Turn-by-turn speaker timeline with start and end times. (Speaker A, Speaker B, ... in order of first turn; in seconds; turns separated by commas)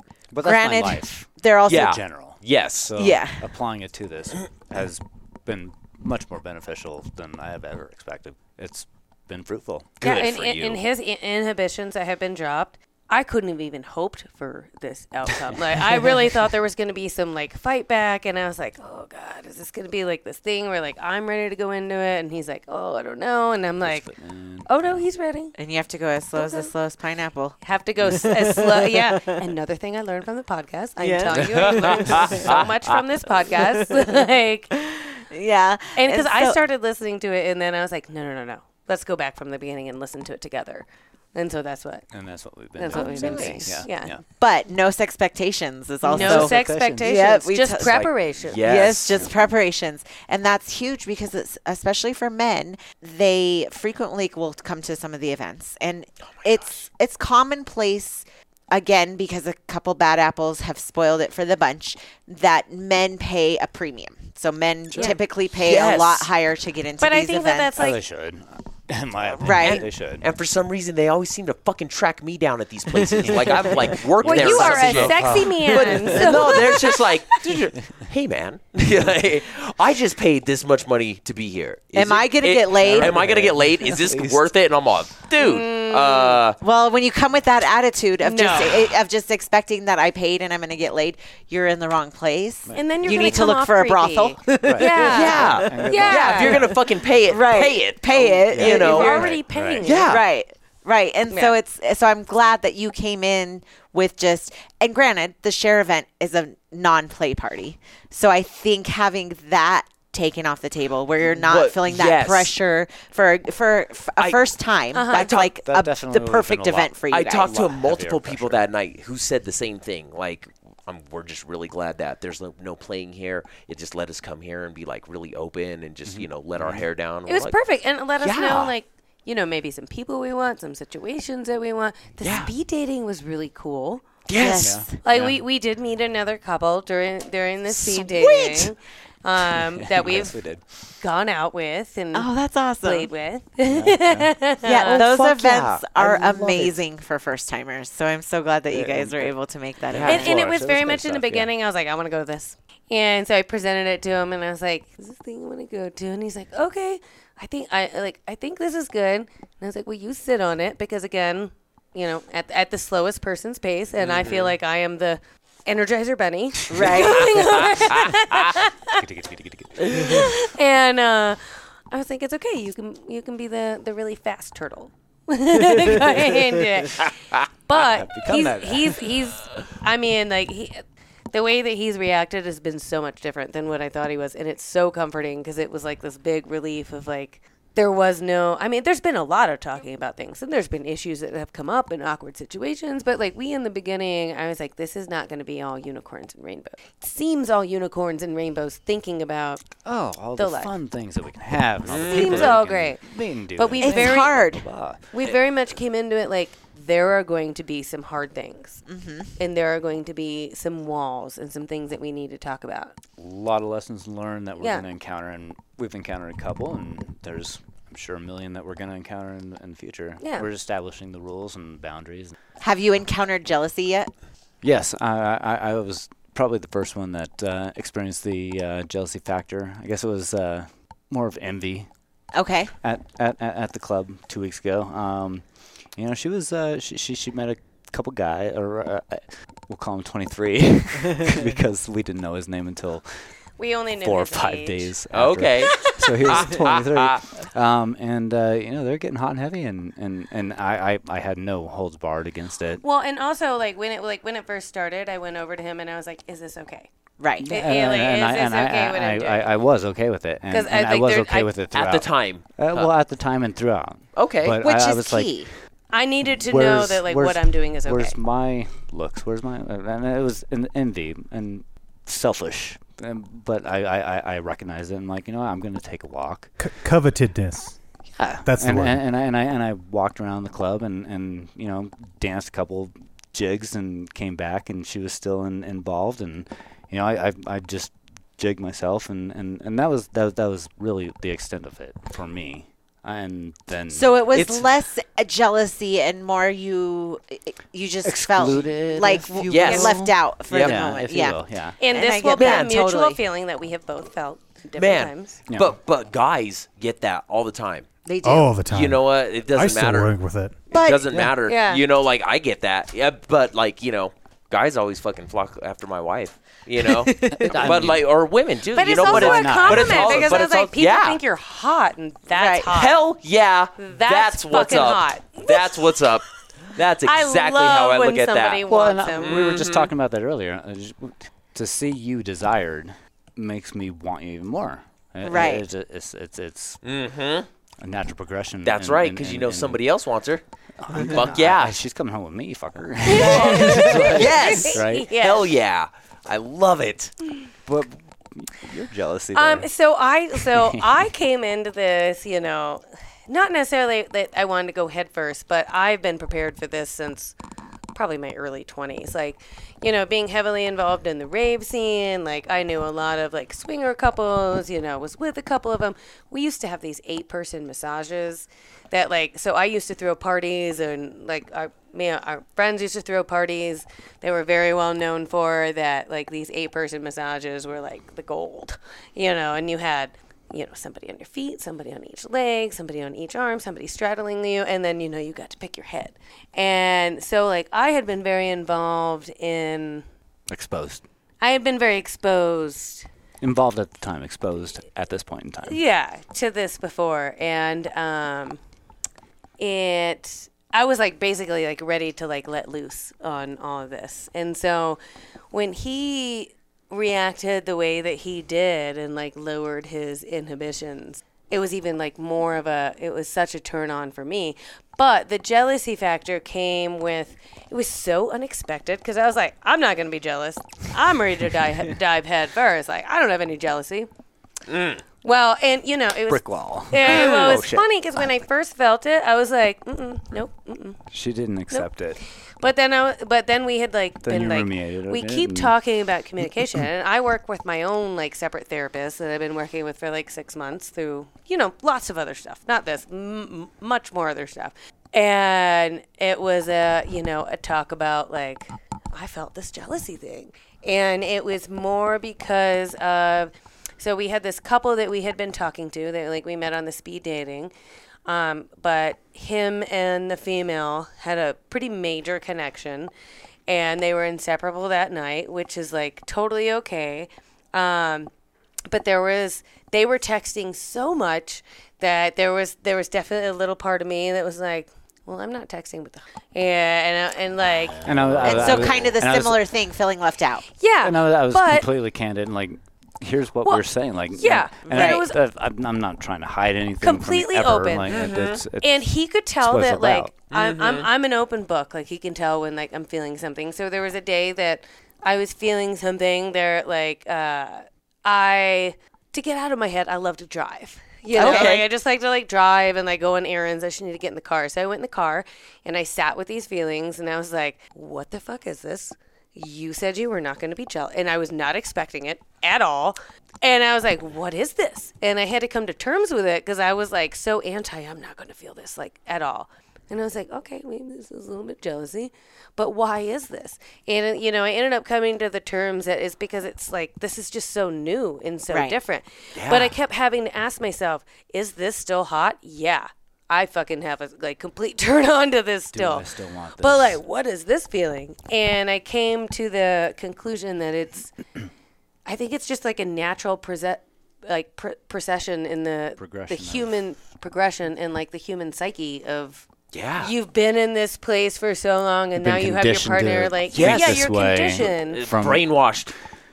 Speaker A: 0.3-10.1, Speaker B: 0.4-2.0, Speaker C: 1.7-2.9, Speaker B: 3.0-3.4, Speaker C: 10.0-10.8, Speaker D: 10.0-24.1, Speaker A: 23.8-25.0, Speaker D: 24.7-25.5, Speaker B: 25.6-29.4, Speaker D: 26.4-26.7, Speaker D: 27.6-34.7, Speaker B: 31.0-32.4, Speaker C: 31.3-33.0, Speaker B: 33.6-34.1, Speaker B: 34.8-36.6, Speaker D: 36.0-42.1, Speaker A: 42.1-44.2, Speaker D: 42.8-44.2, Speaker B: 42.9-43.7, Speaker C: 43.0-43.6, Speaker B: 44.4-67.7, Speaker D: 46.1-48.6, Speaker A: 46.1-47.2, Speaker A: 47.8-48.1, Speaker C: 48.5-49.3, Speaker C: 65.0-66.3, Speaker D: 67.0-68.0, Speaker A: 67.8-70.2, Speaker B: 69.4-69.8, Speaker C: 69.5-86.6, Speaker B: 73.1-74.0, Speaker A: 73.2-76.3, Speaker D: 74.2-77.1, Speaker B: 75.8-76.7, Speaker B: 81.9-83.3, Speaker A: 82.7-84.5, Speaker D: 85.4-86.4, Speaker B: 86.6-99.3, Speaker D: 88.2-88.9, Speaker A: 92.7-93.4, Speaker D: 92.8-96.6, Speaker A: 94.6-96.8, Speaker C: 94.9-99.3, Speaker A: 98.1-99.9, Speaker D: 98.6-100.1, Speaker C: 99.8-100.2, Speaker B: 100.0-117.6, Speaker D: 101.3-101.6, Speaker C: 111.4-112.5, Speaker C: 114.2-114.5, Speaker D: 114.9-115.3, Speaker C: 115.1-115.5, Speaker A: 115.6-118.6, Speaker C: 117.1-127.6, Speaker A: 126.1-126.9, Speaker D: 127.3-134.1, Speaker C: 128.2-128.7, Speaker C: 132.2-132.5, Speaker C: 134.3-134.8, Speaker B: 134.3-134.9, Speaker A: 134.5-135.4, Speaker D: 135.0-140.4, Speaker B: 137.7-138.7, Speaker A: 139.5-140.6, Speaker D: 141.0-145.1, Speaker B: 142.1-143.1, Speaker A: 143.7-144.3, Speaker B: 144.6-150.4, Speaker A: 145.0-146.7, Speaker A: 148.7-149.3, Speaker A: 149.9-151.5, Speaker C: 149.9-150.3, Speaker D: 150.1-169.0, Speaker C: 164.0-164.6, Speaker B: 166.7-167.4, Speaker A: 168.9-170.3, Speaker D: 169.9-177.1, Speaker C: 177.1-177.3, Speaker D: 177.7-199.7, Speaker A: 177.7-179.1, Speaker A: 199.8-205.0, Speaker D: 200.4-200.7, Speaker C: 201.8-202.6, Speaker D: 202.1-203.0, Speaker D: 203.6-204.4, Speaker B: 203.8-204.7, Speaker D: 205.1-208.8, Speaker B: 208.9-209.3, Speaker D: 209.4-212.9, Speaker A: 213.2-222.3, Speaker D: 214.6-214.8, Speaker D: 220.2-220.5, Speaker B: 222.6-224.1, Speaker A: 224.6-231.9, Speaker B: 232.3-232.7, Speaker A: 232.8-235.4, Speaker A: 236.0-243.2, Speaker D: 243.6-244.9, Speaker A: 244.0-252.8, Speaker C: 245.1-247.3, Speaker D: 252.8-256.9, Speaker B: 257.2-257.5, Speaker A: 257.4-265.4, Speaker D: 257.5-259.5, Speaker D: 260.5-261.5, Speaker C: 261.7-262.9, Speaker C: 264.2-264.6, Speaker B: 264.6-265.5, Speaker D: 265.9-268.2, Speaker A: 266.4-276.5, Speaker E: 276.6-277.8, Speaker A: 278.2-294.7, Speaker E: 278.4-279.0, Speaker B: 293.9-303.2, Speaker A: 298.0-301.8, Speaker C: 299.5-300.8, Speaker D: 301.8-305.4, Speaker C: 302.4-302.7, Speaker C: 304.8-307.9, Speaker A: 305.5-305.8, Speaker B: 308.1-308.6, Speaker E: 308.2-310.6, Speaker C: 308.7-310.1, Speaker B: 310.7-311.2, Speaker C: 310.7-321.2, Speaker D: 311.5-311.8, Speaker D: 317.1-317.9, Speaker A: 317.3-318.0, Speaker D: 318.7-323.0, Speaker A: 318.8-320.4, Speaker B: 322.3-322.7, Speaker C: 322.7-328.6, Speaker D: 323.8-325.8, Speaker D: 327.0-329.4, Speaker A: 328.7-336.8, Speaker C: 329.2-329.9, Speaker B: 335.2-335.7, Speaker C: 336.8-337.5, Speaker A: 337.8-339.8, Speaker C: 338.6-340.4, Speaker A: 340.8-345.1, Speaker C: 340.9-341.8, Speaker D: 343.1-345.5, Speaker C: 343.2-347.1, Speaker A: 347.7-349.7, Speaker D: 349.3-357.4, Speaker A: 350.4-351.1, Speaker D: 357.9-390.1, Speaker A: 390.5-391.0, Speaker D: 391.4-393.1, Speaker A: 393.4-395.8, Speaker D: 395.6-398.6, Speaker D: 399.6-405.0, Speaker D: 405.5-424.1, Speaker C: 424.7-425.0, Speaker D: 425.2-431.0, Speaker A: 426.3-428.3, Speaker C: 427.0-427.7, Speaker A: 431.1-432.2, Speaker D: 432.6-457.7, Speaker A: 434.2-435.8, Speaker A: 436.4-436.9, Speaker D: 458.3-463.1, Speaker D: 463.7-468.3, Speaker D: 468.9-478.8, Speaker A: 478.0-479.6, Speaker C: 478.1-478.9, Speaker B: 478.4-480.7, Speaker D: 480.8-481.9, Speaker A: 481.0-489.1, Speaker D: 483.6-485.4, Speaker B: 484.9-485.3, Speaker D: 487.0-541.3, Speaker C: 488.1-488.6, Speaker A: 489.6-490.3, Speaker C: 490.5-491.1, Speaker B: 501.3-501.7, Speaker C: 501.3-501.9, Speaker B: 528.7-529.0, Speaker C: 529.6-529.9, Speaker A: 535.9-537.2, Speaker D: 542.3-549.7, Speaker A: 546.2-546.9, Speaker C: 549.9-550.3, Speaker D: 550.2-555.2, Speaker A: 552.4-555.6, Speaker C: 553.7-554.3, Speaker C: 554.8-556.1